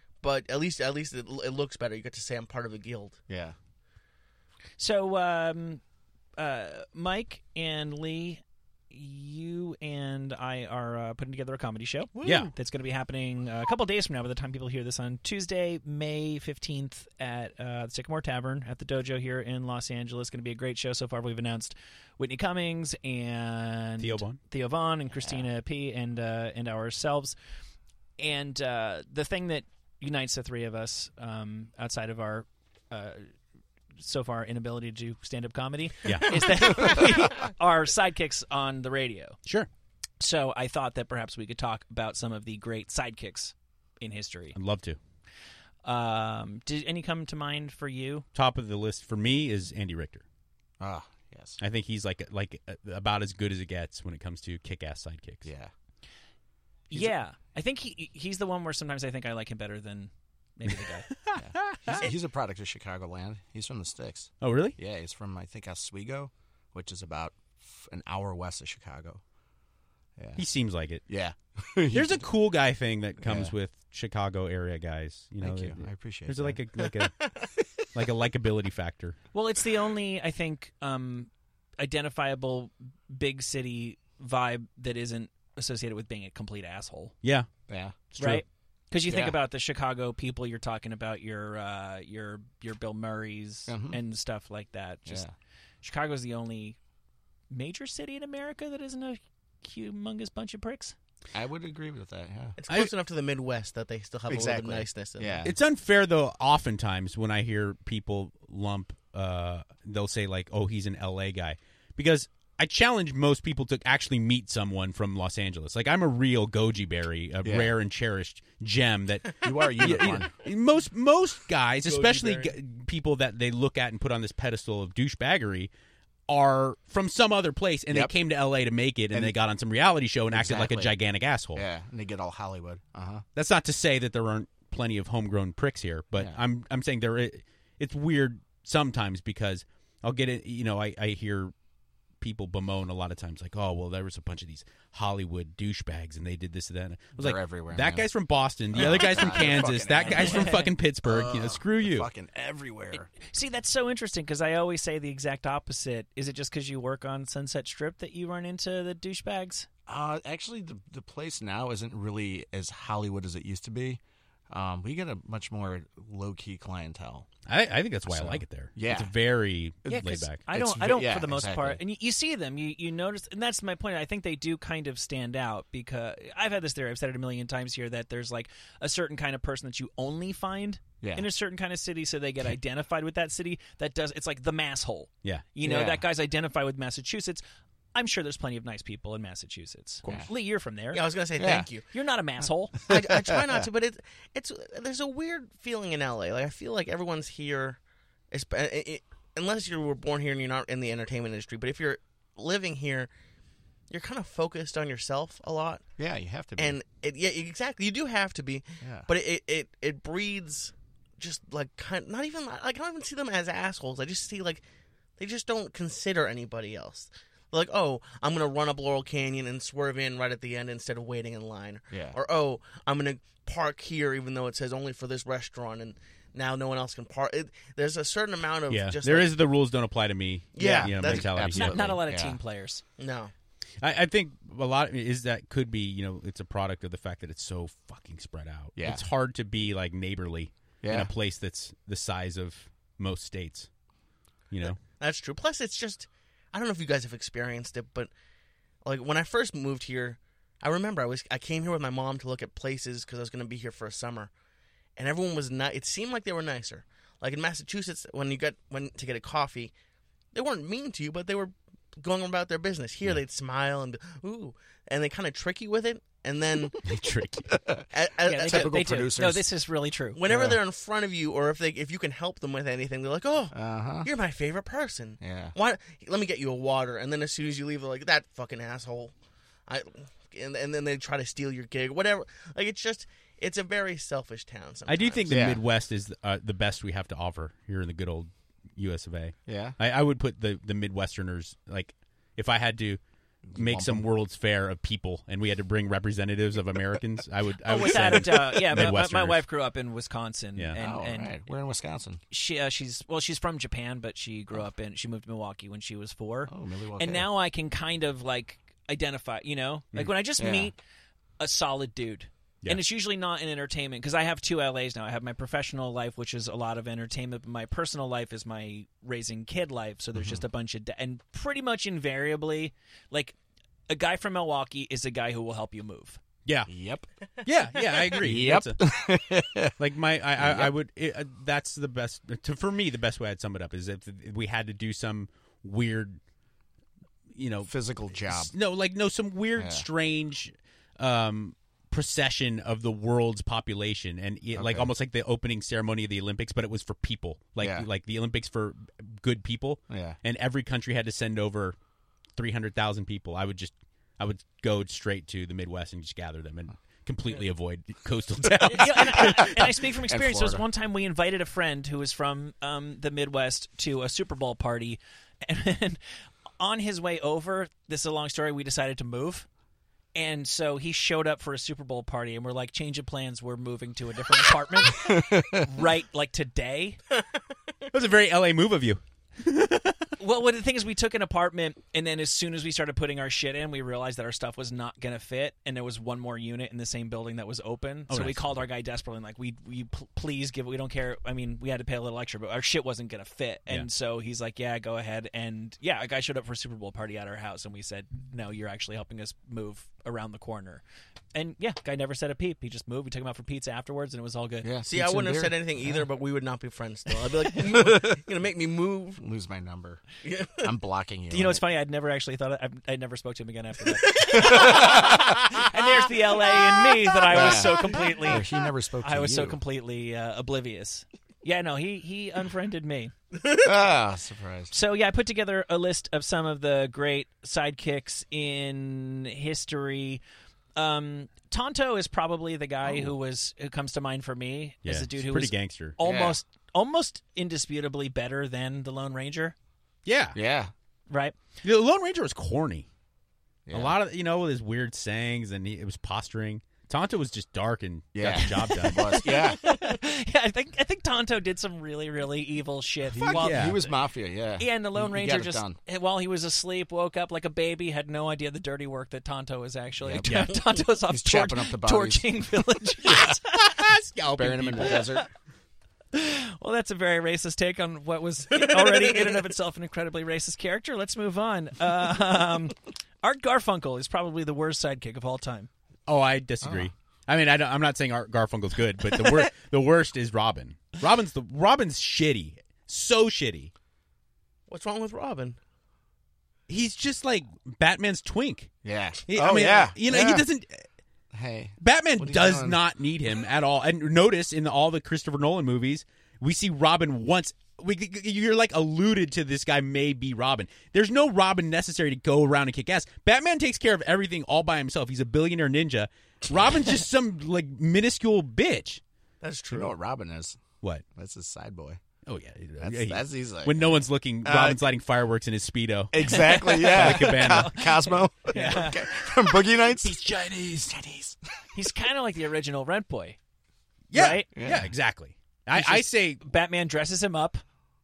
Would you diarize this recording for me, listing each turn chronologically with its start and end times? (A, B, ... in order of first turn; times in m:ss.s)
0:00.2-0:03.2 A
0:03.3-0:03.6 B
0:04.8-0:05.8 C
0:06.4-0:27.4 C
0:12.2-0:12.5 A
0:12.2-0:12.5 D
0:24.0-0:24.4 D
0:28.2-0:33.3 C
0:34.0-0:39.4 C
0:36.0-0:36.9 D
0:40.2-0:44.6 C
0:44.6-0:45.0 D
0:45.8-0:48.3 C
0:48.4-0:50.2 D
0:50.8-0:51.6 B
0:51.6-0:55.5 D
0:55.4-0:55.7 B
0:56.9-1:01.1 C
1:01.3-1:02.0 D
1:01.4-1:09.2 B
1:04.4-1:04.8 D
1:10.2-1:10.4 B
1:10.4-1:11.0 D
1:11.1-1:12.3 B
1:11.9-1:17.3 D
1:13.2-1:13.5 B
1:15.4-1:16.6 B
1:16.8-1:17.4 A
1:17.9-1:19.2 D
1:19.3-1:27.2 C
1:27.2-1:27.5 D
1:27.7-1:28.0 B
1:28.1-1:28.4 D
1:28.2-1:35.3 C
1:29.1-1:29.4 B
1:33.7-1:34.0 B
1:35.1-1:35.3 B
1:35.8-1:36.8 C
1:37.5-1:41.0 C
1:41.3-1:42.6 B
1:42.6-1:45.4 A
1:44.3-1:45.6 B
1:45.4-2:05.7 D
1:57.4-1:57.7 B
1:59.4-2:00.3 B
2:01.8-2:02.5 A
2:06.3-2:11.6 D
2:10.3-2:10.9 B
2:11.6-2:13.2 B
2:13.4-2:21.5 D
2:22.2-2:32.1 D
2:27.2-2:28.1 B
2:28.7-2:33.1 B
2:30.1-2:30.7 C
2:32.9-2:39.7 C
2:39.9-2:47.3 B
2:47.5-2:50.4 D
2:48.1-2:49.1 B
2:49.8-2:51.8 B
2:49.9-3:07.4 C
3:01.0-3:01.3 B
3:05.6-3:06.0 B
3:08.0-3:11.0 C
3:10.0-3:10.3 B
3:10.9-3:11.9 A
3:11.4-3:11.7 B
3:11.9-3:12.8 C
3:12.9-3:17.8 A
3:12.9-3:13.7 B
3:18.3-3:23.1 A
3:23.9-3:25.8 A
3:26.0-3:26.8 B
3:26.6-3:34.6 A
3:28.8-3:29.1 B
3:35.2-3:49.3 A
3:41.9-3:42.2 B
3:48.7-3:51.9 D
3:50.6-3:51.3 A
3:50.6-3:52.4 B
3:51.5-3:52.8 C
3:53.0-3:53.3 A
3:53.8-4:03.7 D
3:58.8-3:59.0 B
4:00.8-4:01.1 B
4:04.5-4:04.8 D
4:05.0-4:08.1 A
4:08.8-4:14.3 A
4:15.0-4:19.7 A
4:20.3-4:26.8 A
4:26.8-4:27.6 D
4:27.5-4:27.9 B
4:27.9-4:28.8 A
4:28.2-4:30.2 C
4:28.4-4:29.4 B
4:30.2-4:39.1 A
4:30.3-4:30.6 B
4:33.5-4:34.1 B
4:35.2-4:35.5 B
4:39.7-4:45.4 A
4:44.9-4:53.0 D
4:45.3-4:45.6 B
4:49.5-4:49.8 B
4:53.5-4:54.0 B
4:53.6-4:59.4 D
4:57.7-5:01.4 C
5:00.8-5:02.2 B
5:02.3-5:10.8 C
5:06.5-5:07.3 B
5:10.4-5:10.7 B
5:11.4-5:23.4 C
5:23.9-5:26.2 C
5:26.4-5:26.7 D
5:26.7-5:27.1 B
5:27.4-5:28.8 D
5:28.2-5:29.8 B
5:29.8-5:36.2 D
5:30.4-5:30.7 B
5:37.3-5:51.8 D
5:37.7-5:38.5 B
5:39.6-5:39.9 B
5:44.6-5:44.9 B
5:47.6-5:47.9 B
5:49.9-5:50.2 B
5:52.4-5:59.6 D
5:58.7-6:06.0 C
5:59.0-6:00.6 B
6:06.6-6:09.5 C
6:10.2-6:17.0 C
6:15.0-6:15.7 B
6:17.9-6:20.1 D
6:20.2-6:40.8 C
6:28.1-6:28.6 D
6:41.3-6:44.7 C
6:44.6-6:46.0 B
6:44.9-6:49.2 A
6:47.7-6:48.2 B
6:49.2-6:50.0 B
6:50.2-6:50.7 A
6:50.6-6:51.6 B
6:51.3-6:58.5 C
6:54.1-6:55.0 A
6:54.3-6:55.4 B
6:57.3-6:57.7 A
6:57.3-6:59.6 B
6:59.0-7:03.1 C
7:03.4-7:03.7 A
7:03.6-7:04.7 B
7:04.7-7:10.2 C
7:10.8-7:19.6 C
7:14.8-7:16.0 D
7:16.0-7:16.4 B
7:20.1-7:20.4 D
7:20.3-7:20.7 B
7:21.1-7:21.4 C
7:21.6-7:22.9 D
7:23.7-7:24.0 B
7:23.7-7:29.3 D
7:28.2-7:29.7 B
7:28.3-7:34.0 C
7:33.1-7:35.8 B
7:33.3-7:33.8 D
7:34.6-7:43.8 C
7:40.0-7:40.6 B
7:40.2-7:40.6 D
7:41.1-7:42.3 B
7:43.1-7:45.1 D
7:44.4-7:45.3 B
7:44.8-7:45.2 C
7:46.1-7:55.7 C
7:48.7-7:49.2 A
7:56.1-8:03.7 D
7:56.6-7:56.9 B
8:04.7-8:05.6 A
8:06.7-8:08.7 D
8:08.8-8:10.5 B
8:09.3-8:10.8 D
8:11.3-8:12.8 B
8:11.8-8:29.0 D
8:29.4-8:29.9 A
8:29.7-8:30.6 B
8:31.1-8:32.0 B
8:32.3-8:38.0 D
8:32.8-8:33.9 B
8:34.4-8:34.8 B
8:36.1-8:41.4 B
8:36.2-8:39.1 C
8:39.9-8:40.9 D
8:41.8-8:43.4 C
8:44.1-8:46.4 D
8:44.1-8:44.5 C
8:44.5-8:44.9 B
8:45.7-8:47.6 C